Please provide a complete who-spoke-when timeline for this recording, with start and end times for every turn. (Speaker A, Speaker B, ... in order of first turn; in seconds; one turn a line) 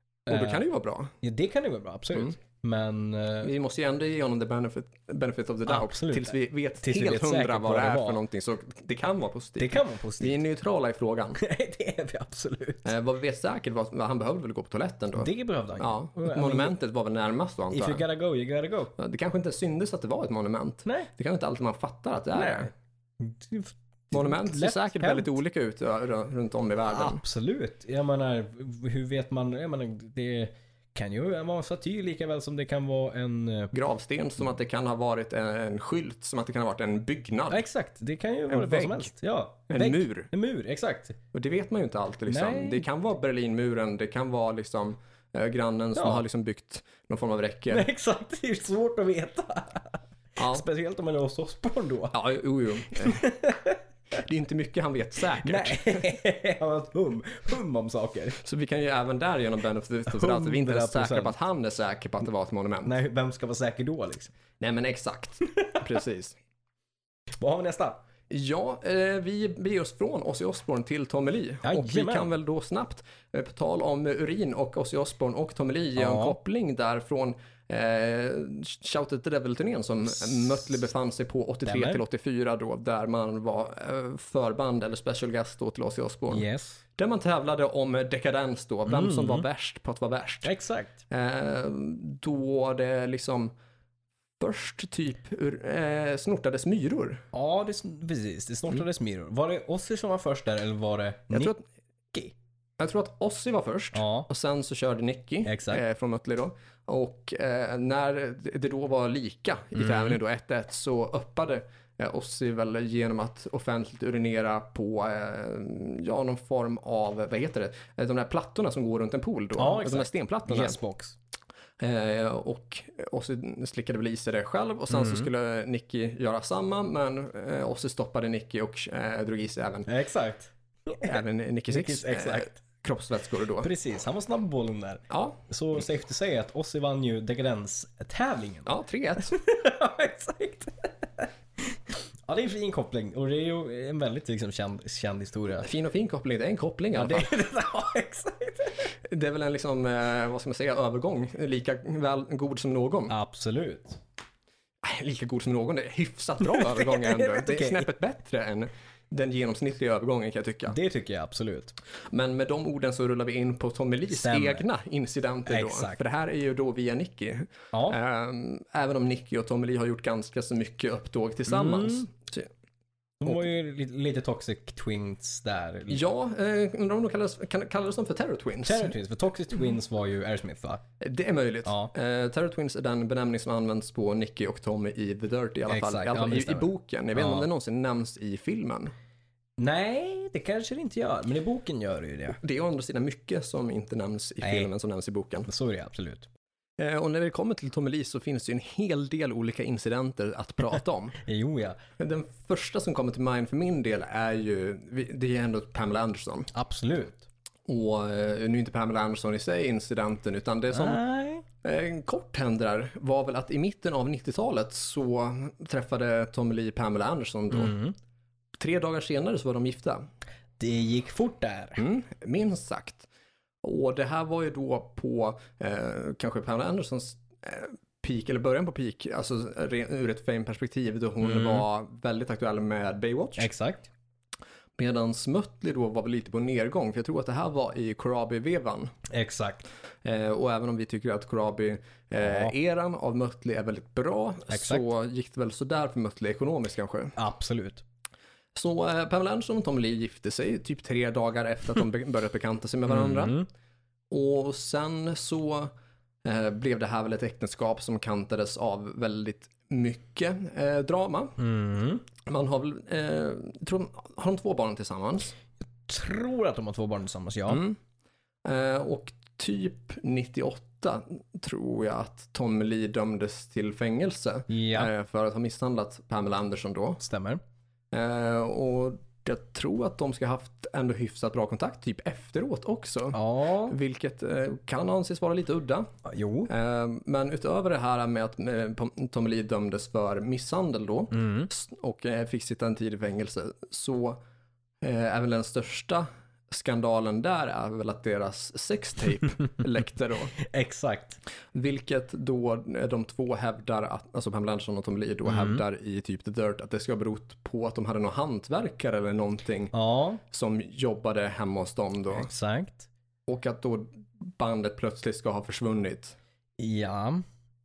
Speaker A: 0.3-0.6
Speaker B: 0.3-1.1
Speaker A: 1.2-3.5
Speaker B: 3.4-11.4
Speaker A: 5.7-8.2
Speaker A: 9.6-10.4
Speaker A: 11.4-12.9
Speaker B: 12.8-18.0
Speaker A: 15.2-16.7
Speaker A: 17.7-18.9
Speaker B: 19.0-22.7
Speaker A: 20.8-21.1
Speaker A: 22.3-25.4
Speaker B: 24.1-27.2
Speaker A: 26.9-33.7
Speaker B: 33.7-37.7
Speaker A: 37.5-41.2
Speaker B: 38.5-39.1
Speaker B: 39.7-40.3
Speaker B: 41.3-47.9
Speaker A: 42.3-42.8
Speaker A: 46.0-46.2
Speaker A: 47.7-52.2
Speaker B: 50.4-50.6
Speaker B: 52.1-53.3
Speaker A: 52.9-53.8
Speaker B: 54.1-56.1
Speaker A: 55.4-58.4
Speaker B: 58.4-62.9
Speaker A: 60.1-61.4
Speaker A: 62.8-64.3
Speaker B: 64.6-66.4
Speaker A: 67.4-68.0
Speaker B: 68.3-86.5
Speaker A: 71.6-72.3
Speaker A: 76.0-76.3
Speaker A: 81.6-82.0
Speaker A: 86.3-86.8
Speaker B: 87.0-90.5
Speaker A: 88.9-89.4
Speaker A: 90.4-91.0
Speaker B: 91.1-93.5
Speaker B: 94.4-97.2
Speaker A: 97.3-101.5
Speaker B: 101.3-101.6
Speaker B: 102.8-120.8
Speaker A: 103.9-104.3
Speaker A: 105.4-105.8
Speaker A: 109.8-110.2
Speaker A: 119.6-121.2
Speaker B: 121.8-129.9
Speaker A: 124.9-125.3
Speaker A: 129.9-131.2
Speaker B: 131.0-133.7
Speaker A: 131.7-132.6
Speaker A: 133.6-138.7
Speaker B: 135.1-135.4
Speaker B: 138.7-139.3
Speaker A: 139.3-145.7
Speaker B: 145.6-147.3
Speaker A: 146.9-148.9
Speaker B: 149.0-153.1
Speaker A: 153.1-154.0
Speaker B: 154.8-160.8
Speaker A: 156.4-157.9
Speaker A: 160.7-161.7
Speaker B: 162.1-172.5
Speaker A: 164.1-164.6
Speaker A: 165.5-166.0
Speaker A: 167.7-168.0
Speaker A: 171.5-172.1
Speaker A: 173.2-176.1
Speaker B: 175.9-178.9
Speaker A: 178.6-180.8
Speaker B: 181.0-188.9
Speaker A: 181.6-181.9
Speaker A: 185.7-187.5
Speaker A: 189.6-192.4
Speaker B: 192.4-195.5
Speaker A: 194.4-194.7
Speaker A: 195.5-196.3
Speaker B: 196.8-201.2
Speaker A: 201.2-201.8
Speaker B: 202.0-206.5
Speaker A: 206.5-207.3
Speaker B: 207.7-211.0
Speaker A: 210.7-211.4
Speaker B: 211.6-217.8
Speaker A: 217.5-217.9
Speaker B: 218.6-220.0
Speaker A: 220.6-221.8
Speaker B: 221.8-223.1
Speaker B: 223.6-233.5
Speaker A: 231.2-231.6
Speaker A: 233.4-233.9
Speaker B: 234.8-238.9
Speaker A: 239.1-239.7
Speaker B: 240.0-247.2
Speaker A: 242.2-242.5
Speaker A: 244.5-244.9
Speaker A: 247.2-247.8
Speaker B: 248.5-253.4
Speaker A: 252.9-253.5
Speaker B: 254.1-255.7
Speaker B: 256.2-261.4
Speaker A: 261.4-262.0
Speaker B: 262.2-265.3
Speaker A: 265.9-267.6
Speaker B: 267.5-267.8
Speaker B: 268.4-277.0
Speaker A: 274.5-274.9
Speaker A: 277.0-277.4
Speaker B: 277.9-285.9
Speaker A: 283.1-283.8
Speaker A: 286.0-286.5
Speaker B: 286.5-294.2
Speaker A: 291.1-291.5
Speaker B: 294.8-300.3
Speaker A: 300.4-301.2
Speaker B: 301.5-309.7
Speaker A: 305.2-305.6
Speaker A: 309.7-310.2
Speaker B: 310.3-312.3
Speaker A: 312.1-312.9
Speaker B: 313.3-316.2
Speaker A: 316.6-317.2